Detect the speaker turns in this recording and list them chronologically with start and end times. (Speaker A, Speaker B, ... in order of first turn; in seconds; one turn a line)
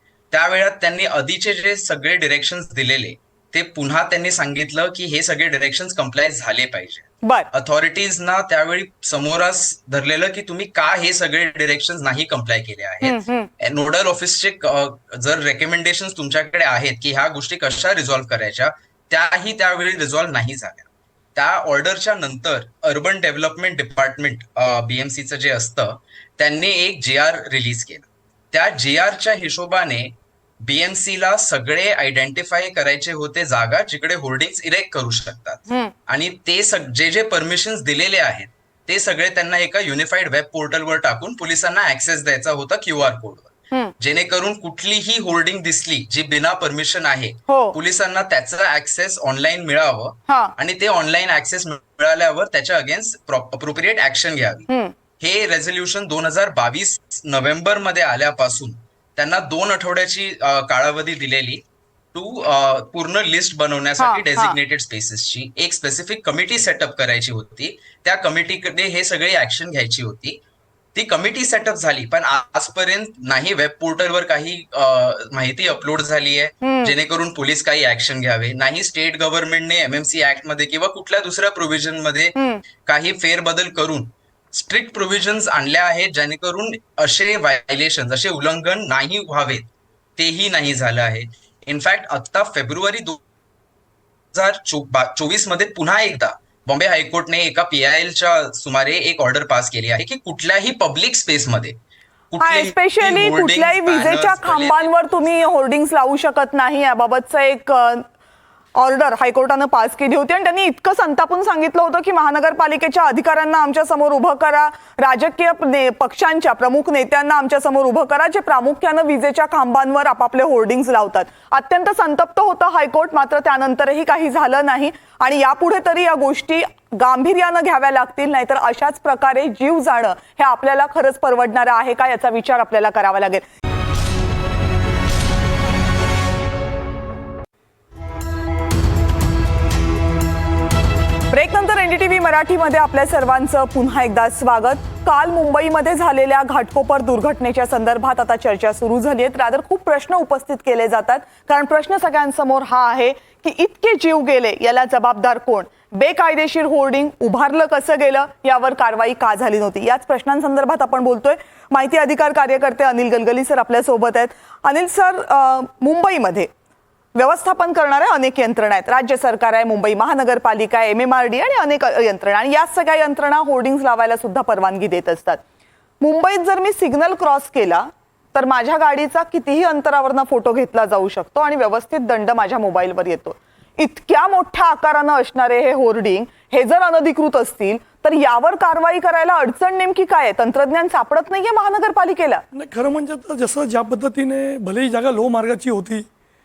Speaker A: 0.3-54.7
Speaker B: 7.2-7.5
Speaker B: 13.0-13.5
Speaker B: 47.5-47.8
Speaker B: 50.3-50.5
Speaker B: 54.7-54.9
Speaker A: 55.2-61.6
Speaker A: 62.1-70.4
Speaker B: 64.0-64.6
Speaker A: 71.0-93.2
Speaker B: 76.6-76.9
Speaker B: 82.4-82.6
Speaker A: 94.3-101.8
Speaker A: 102.3-105.0
Speaker B: 102.4-108.1
Speaker B: 108.8-133.4
Speaker B: 141.3-166.5
Speaker B: 167.2-175.4
Speaker B: 176.0-192.4
Speaker C: 192.5-196.1